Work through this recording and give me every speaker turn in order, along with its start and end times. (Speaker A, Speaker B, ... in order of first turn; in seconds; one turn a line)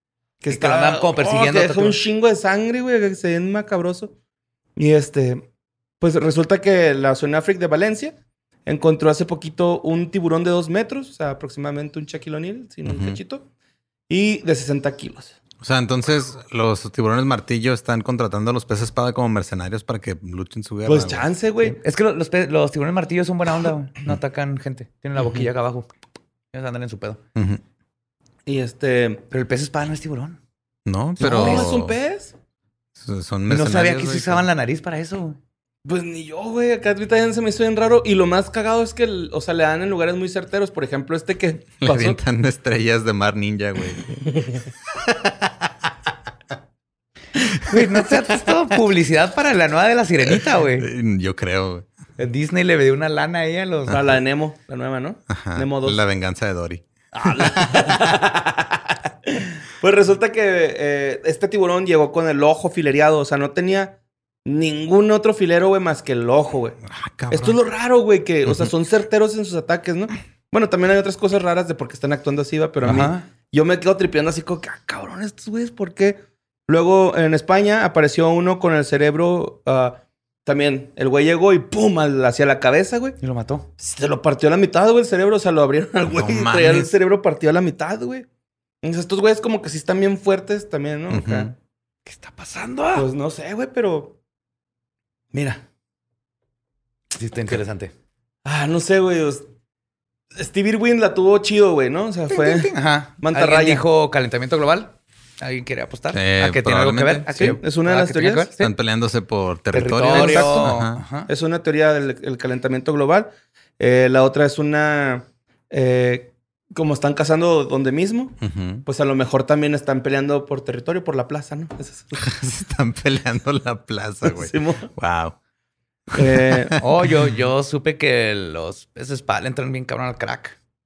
Speaker A: 0.4-4.1
Speaker B: 0.5-2.0
Speaker A: 4.8-5.5
Speaker A: 6.0-13.4
Speaker C: 12.8-13.2
Speaker A: 14.1-15.4
Speaker C: 15.6-21.3
Speaker A: 20.9-21.8
Speaker B: 21.6-25.9
Speaker A: 25.2-25.5
Speaker B: 26.5-27.2
Speaker C: 27.4-27.6
Speaker A: 28.5-29.2
Speaker B: 29.3-30.4
Speaker C: 30.9-31.9
Speaker B: 31.2-31.7
Speaker A: 31.2-32.4
Speaker C: 33.0-34.5
Speaker B: 33.5-35.4
Speaker A: 35.9-42.2
Speaker C: 41.8-44.2
Speaker C: 45.0-45.7
Speaker B: 47.6-50.9
Speaker C: 50.8-51.9
Speaker B: 52.2-54.0
Speaker A: 53.9-56.0
Speaker C: 55.3-57.8
Speaker A: 57.1-83.2
Speaker C: 66.8-67.6
Speaker B: 72.8-73.3
Speaker B: 83.2-83.7
Speaker A: 83.8-88.3
Speaker C: 86.0-86.9
Speaker A: 88.8-91.5
Speaker C: 91.1-91.5
Speaker B: 92.1-93.1
Speaker A: 93.0-94.2
Speaker A: 95.3-95.6
Speaker B: 97.1-97.9
Speaker A: 98.5-99.5
Speaker A: 100.3-103.8
Speaker B: 102.3-108.7
Speaker C: 106.1-107.3
Speaker A: 107.3-108.5
Speaker C: 108.6-111.0
Speaker B: 109.7-111.3
Speaker A: 110.1-110.7
Speaker A: 111.3-122.3
Speaker C: 118.4-118.8
Speaker C: 122.2-125.4
Speaker A: 124.2-124.9
Speaker C: 126.1-126.8
Speaker A: 126.2-126.8
Speaker B: 126.8-130.6